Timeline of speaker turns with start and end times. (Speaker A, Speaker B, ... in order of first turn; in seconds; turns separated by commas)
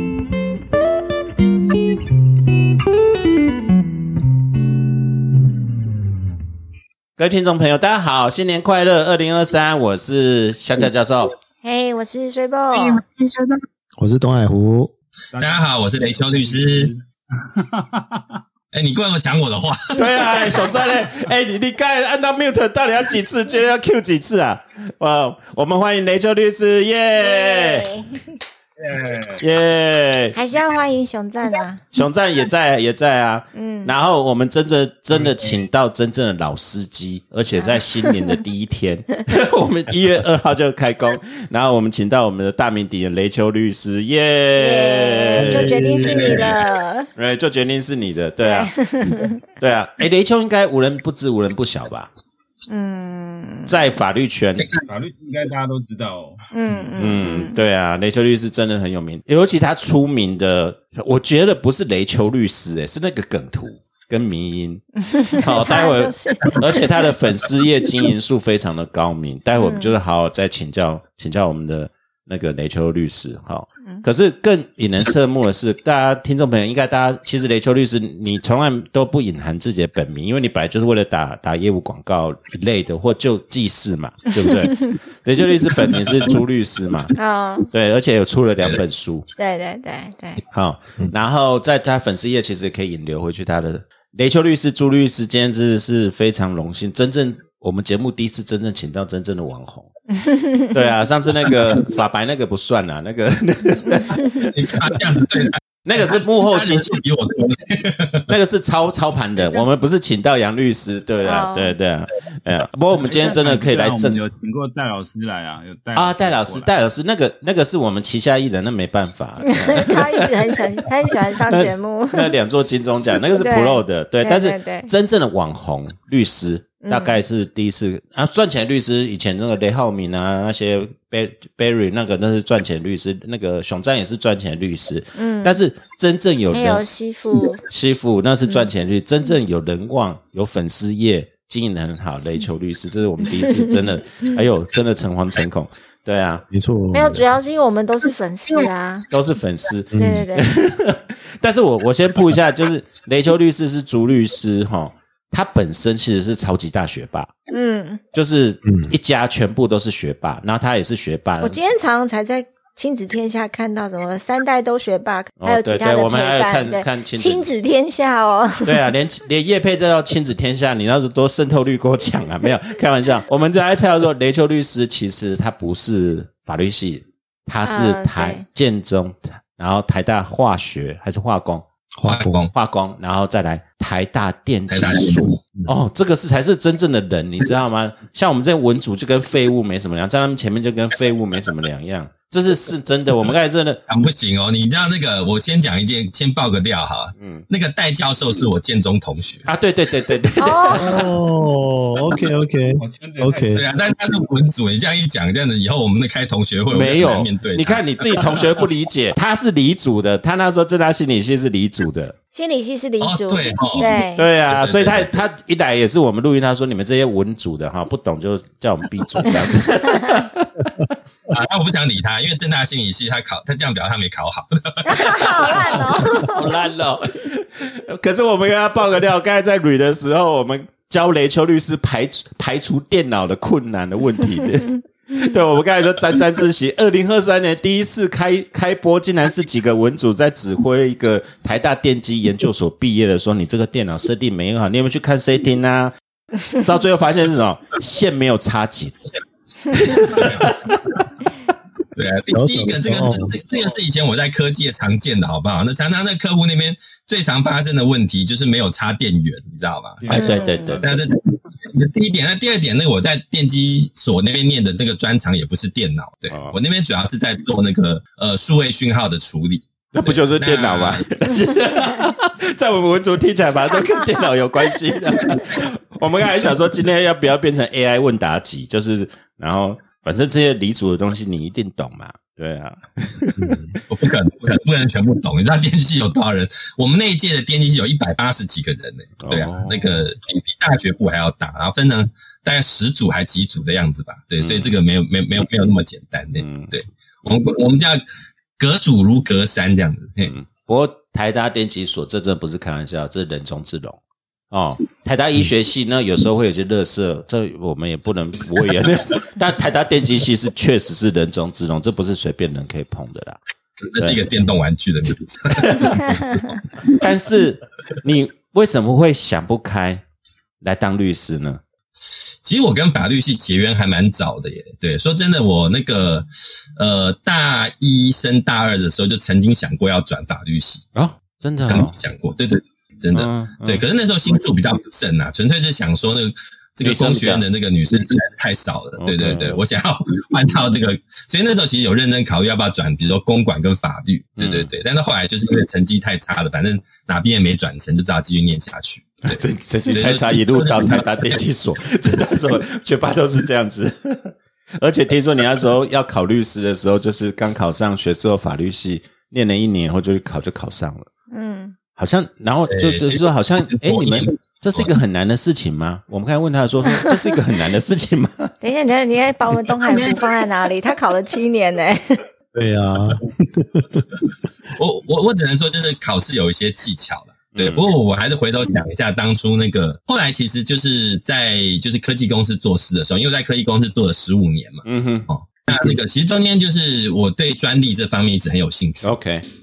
Speaker A: 5.6-5.9, Speaker B: 7.2-11.3, Speaker C: 11.6-13.1, Speaker A: 13.1-14.9, Speaker D: 15.3-18.2, Speaker E: 15.4-16.9, Speaker E: 18.7-20.0, Speaker B: 19.9-27.9, Speaker C: 20.3-20.9, Speaker C: 27.2-28.2, Speaker D: 28.8-29.5, Speaker B: 29.4-30.4, Speaker C: 30.3-31.8, Speaker B: 31.9-46.5, Speaker C: 33.5-33.9, Speaker D: 35.1-35.7, Speaker C: 37.6-38.2, Speaker C: 44.6-47.1, Speaker E: 45.5-46.6, Speaker B: 47.1-48.7, Speaker C: 48.4-49.4, Speaker B: 49.6-52.1, Speaker C: 52.7-53.7, Speaker B: 53.6-54.6, Speaker E: 54.6-54.8, Speaker D: 54.9-57.1, Speaker C: 56.5-57.5, Speaker B: 57.0-64.8, Speaker C: 65.0-67.1, Speaker B: 65.4-87.1, Speaker C: 69.6-70.0, Speaker C: 87.2-87.7, Speaker B: 87.7-89.3, Speaker C: 89.4-90.4, Speaker B: 90.5-99.9, Speaker C: 100.2-100.7, Speaker B: 100.7-104.5, Speaker E: 104.3-108.3, Speaker B: 105.8-106.9, Speaker B: 108.3-114.2, Speaker C: 111.2-111.8, Speaker D: 113.0-116.7, Speaker B: 115.9-120.3, Speaker C: 119.6-122.3, Speaker B: 121.4-136.8, Speaker C: 123.4-124.9, Speaker C: 126.8-127.2, Speaker C: 135.2-135.6, Speaker C: 136.5-137.6, Speaker B: 137.7-146.4, Speaker C: 143.4-143.7, Speaker A: 146.5-147.2, Speaker C: 146.9-149.1, Speaker B: 149.1-157.3, Speaker A: 149.9-150.2, Speaker C: 150.0-150.5, Speaker C: 157.5-158.0, Speaker B: 158.1-161.6, Speaker A: 158.6-158.9, Speaker C: 161.4-168.8, Speaker B: 165.4-167.5, Speaker B: 168.6-181.6, Speaker C: 177.6-178.4, Speaker A: 182.0-182.4, Speaker E: 182.0-182.5, Speaker B: 182.5-193.8, Speaker E: 184.7-185.7, Speaker E: 193.9-199.5, Speaker B: 197.2-197.4, Speaker B: 199.5-200.8, Speaker C: 200.4-200.9, Speaker A: 200.8-203.6, Speaker D: 202.8-203.6, Speaker E: 203.6-208.4, Speaker B: 206.7-212.2, Speaker C: 212.3-214.2, Speaker E: 213.0-215.1, Speaker B: 213.8-220.7, Speaker C: 219.8-220.2, Speaker E: 221.3-225.7, Speaker C: 224.8-226.5, Speaker B: 226.2-245.9, Speaker B: 246.6-249.1, Speaker B: 249.7-251.0, Speaker D: 250.1-250.4, Speaker E: 251.9-260.2, Speaker A: 252.3-253.3, Speaker D: 260.0-260.9, Speaker B: 260.1-260.9, Speaker C: 260.1-260.4, Speaker E: 260.8-271.0, Speaker B: 266.3-266.6, Speaker B: 269.9-283.8, Speaker A: 283.4-283.8, Speaker E: 283.9-298.0, Speaker B: 289.2-290.1, Speaker B: 294.4-294.8, Speaker B: 296.3-296.8, Speaker E: 298.6-300.3, Speaker B: 300.2-304.0, Speaker B: 304.5-313.4, Speaker E: 313.9-317.0, Speaker B: 315.6-315.9, Speaker B: 317.0-320.0, Speaker B: 320.6-321.6, Speaker E: 322.1-330.8, Speaker B: 330.9-332.0, Speaker E: 331.6-349.4, Speaker B: 333.1-333.8, Speaker B: 336.8-337.4, Speaker B: 339.0-339.6, Speaker B: 344.4-344.7, Speaker B: 349.2-361.1, Speaker E: 349.9-351.4, Speaker E: 352.1-352.6, Speaker C: 361.3-361.7, Speaker B: 361.9-368.5, Speaker E: 362.7-364.9, Speaker C: 368.6-372.2, Speaker A: 372.5-374.0, Speaker E: 374.7-389.1, Speaker B: 377.5-377.9, Speaker B: 384.8-385.3, Speaker B: 389.0-389.4